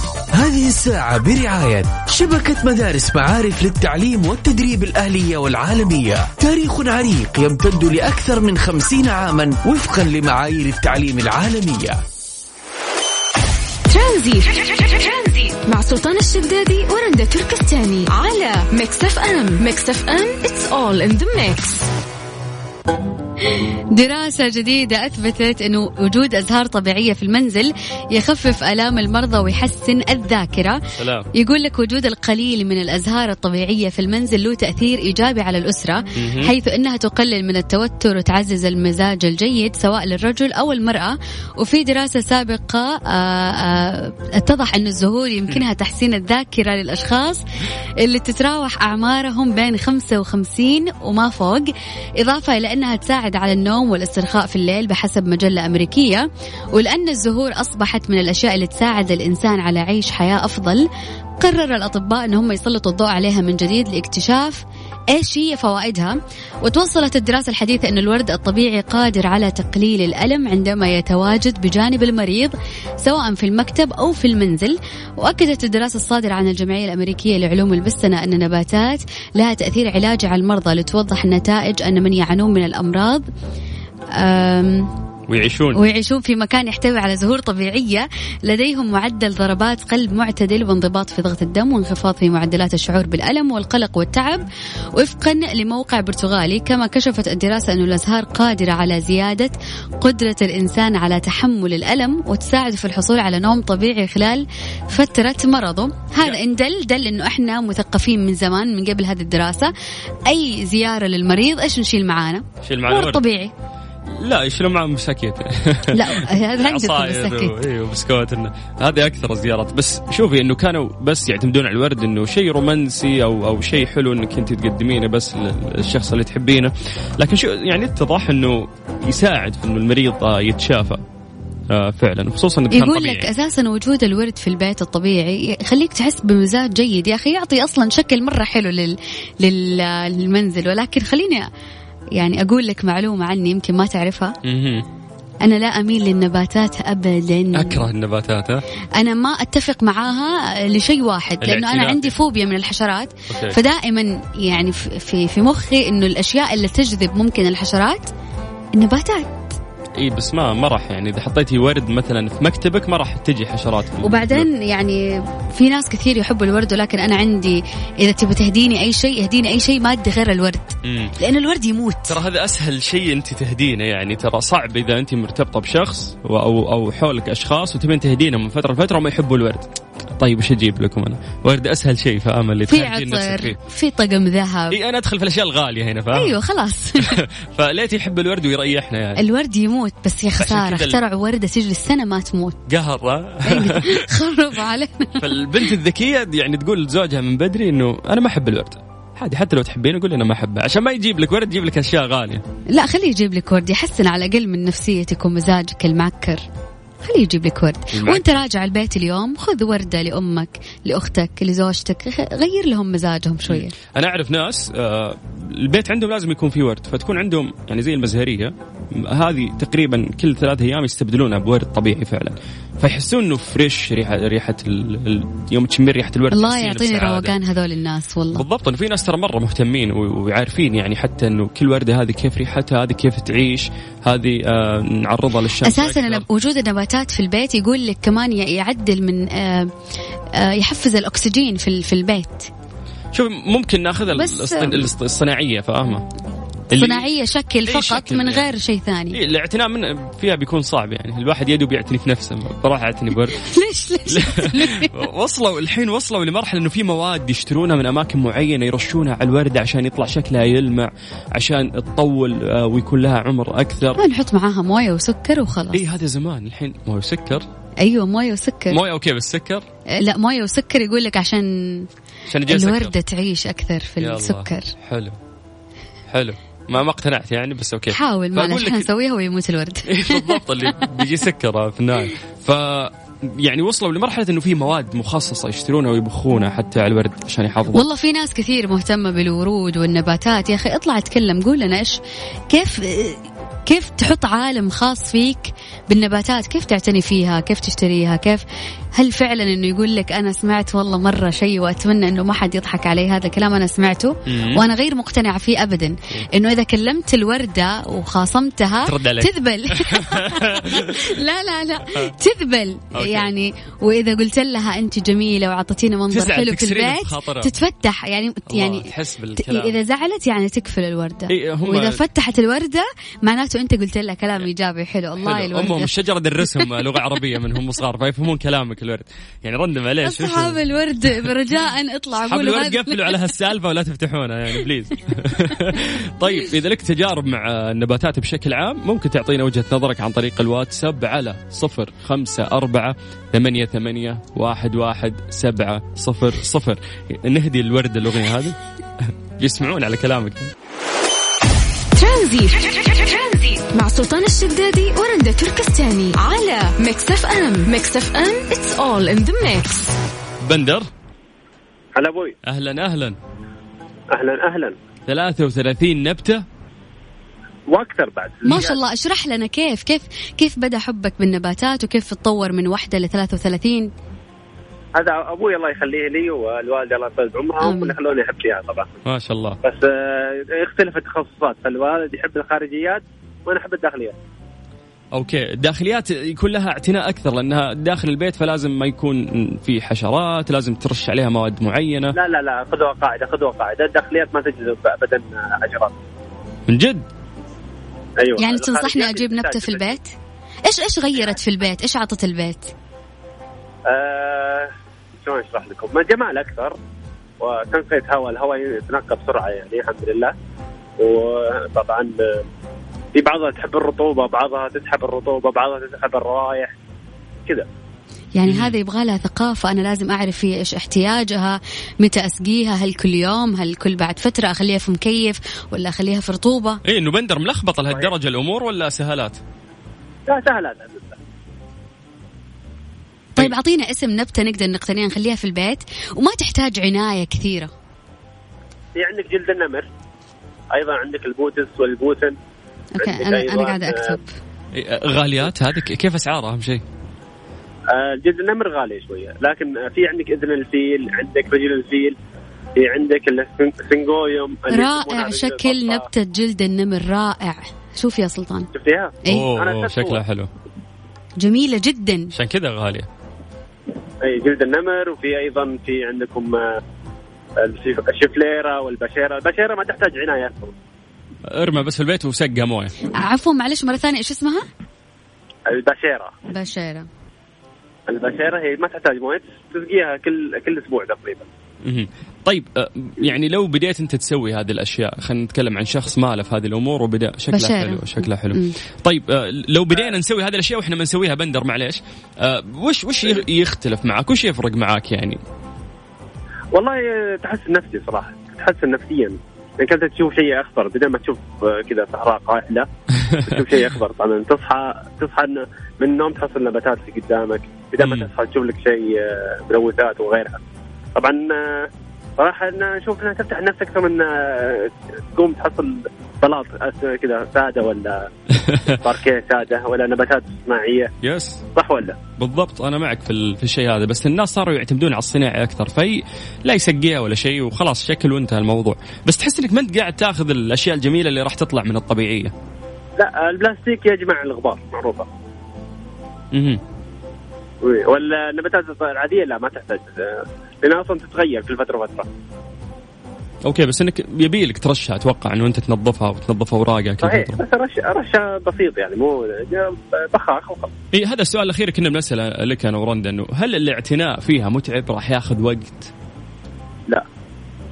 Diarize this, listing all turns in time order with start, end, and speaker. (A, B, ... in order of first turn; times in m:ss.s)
0:00.3-0:12.0 A
0:13.9-0:21.9 B
0:23.5-0:30.8 C
0:30.9-0:31.3 D
0:31.3-0:47.4 C
0:36.2-0:36.5 D
0:48.0-1:00.8 C
1:01.4-1:23.2 C
1:24.1-1:24.9 C
1:25.3-1:25.8 D
1:25.8-1:49.7 C
1:50.2-1:53.5 C
1:52.6-1:53.2 D
1:54.1-2:11.0 D
1:55.9-1:57.5 C
2:11.7-2:13.3 D
2:12.7-2:21.5 C
2:22.1-2:24.4 C
2:24.4-2:24.8 D
2:25.4-2:27.9 C
2:27.5-2:28.6 D
2:29.0-2:38.1 C
2:31.4-2:32.1 D
2:33.3-2:33.6 D
2:38.7-2:39.5 C
2:40.0-2:44.5 D
2:44.0-2:52.2 C
2:50.8-2:51.2 D
2:52.1-3:03.6 D
3:02.7-3:04.8 C
3:04.7-3:06.4 D
3:06.1-3:07.2 C
3:07.0-3:09.2 D
3:09.2-3:12.6 C
3:10.4-3:11.0 D
3:12.7-3:14.1 D
3:13.4-3:15.3 C
3:15.2-3:22.4 D
3:22.7-3:26.4 C
3:27.0-3:33.7 C
3:27.9-3:28.3 D
3:33.5-3:47.3 D
3:46.3-3:48.4 C
3:48.4-3:56.2 D
3:55.6-3:59.7 C
4:00.3-4:02.5 C
4:03.1-4:06.0 D
4:04.1-4:04.9 C
4:06.7-4:07.1 D
4:06.7-4:09.2 C
4:07.7-4:08.5 D
4:09.1-4:13.4 D
4:13.3-4:15.0 C
4:14.1-4:24.0 D
4:24.0-4:25.8 C
4:25.7-4:27.4 D
4:27.8-4:28.8 C
4:28.7-4:29.6 D
4:29.9-4:31.9 C
4:32.3-4:32.9 D
4:32.5-4:34.7 C
4:34.0-4:35.2 D
4:36.1-4:38.9 D
4:37.9-4:40.9 C
4:39.9-4:47.8 D
4:47.7-4:52.0 C
4:52.5-4:58.4 C
4:59.0-5:25.9 C
5:04.3-5:04.6 D
5:08.8-5:11.1 D
5:12.9-5:13.3 D
5:16.1-5:17.5 D
5:18.5-5:19.8 D
5:21.3-5:22.0 D
5:25.2-5:30.6 D
5:30.0-5:33.2 C
5:32.2-5:50.5 D
5:51.9-5:59.9 B
6:00.4-6:00.9 D
6:02.0-6:02.4 E
6:02.4-6:03.2 D
6:04.1-6:04.8 E
6:05.1-6:06.4 D
6:07.7-6:08.8 E
6:08.4-6:13.9 C
6:15.0-6:18.9 E
6:17.6-6:18.0 C
6:19.0-6:19.6 D
6:19.6-6:24.2 E
6:25.1-6:32.2 D
6:32.1-6:36.0 E
6:36.7-6:37.0 D
6:38.2-6:40.0 E
6:38.4-6:42.7 C
6:43.9-6:46.8 E
6:47.4-6:50.3 E
6:51.0-6:52.4 E
6:53.1-6:56.8 E
6:58.4-7:06.8 C
6:58.5-6:58.8 D
7:06.8-7:09.4 D
7:10.3-7:11.2 E
7:13.4-7:17.7 C
7:19.0-7:19.9 E
7:20.7-7:22.4 E
7:23.0-7:24.3 C
7:23.0-7:24.2 E
7:24.7-7:26.8 D
7:27.9-7:32.2 E
7:32.8-7:36.1 E
7:34.7-7:38.7 C
7:38.7-7:40.2 E
7:39.3-7:40.5 D
7:41.4-7:42.3 C
7:42.3-7:43.1 D
7:44.2-7:46.8 E
7:47.6-7:50.8 E
7:51.5-7:52.9 D
7:53.1-7:54.6 C
7:55.7-7:56.4 E
7:56.5-7:57.1 C
7:58.1-8:01.4 E
8:01.8-8:15.4 D
8:07.5-8:08.8 C
8:16.7-8:22.9 E
8:23.2-8:23.6 D
8:23.5-8:30.6 E
8:28.0-8:28.3 D
8:31.1-8:38.3 E
8:38.6-8:39.0 D
8:38.9-8:41.1 E
8:41.2-8:41.6 D
8:41.7-8:42.2 E
8:42.4-8:52.5 D
8:53.2-8:55.3 E
8:56.5-8:56.8 D
8:57.8-9:02.3 E
9:03.6-9:07.6 D
9:07.2-9:10.9 E
9:11.1-9:16.1 D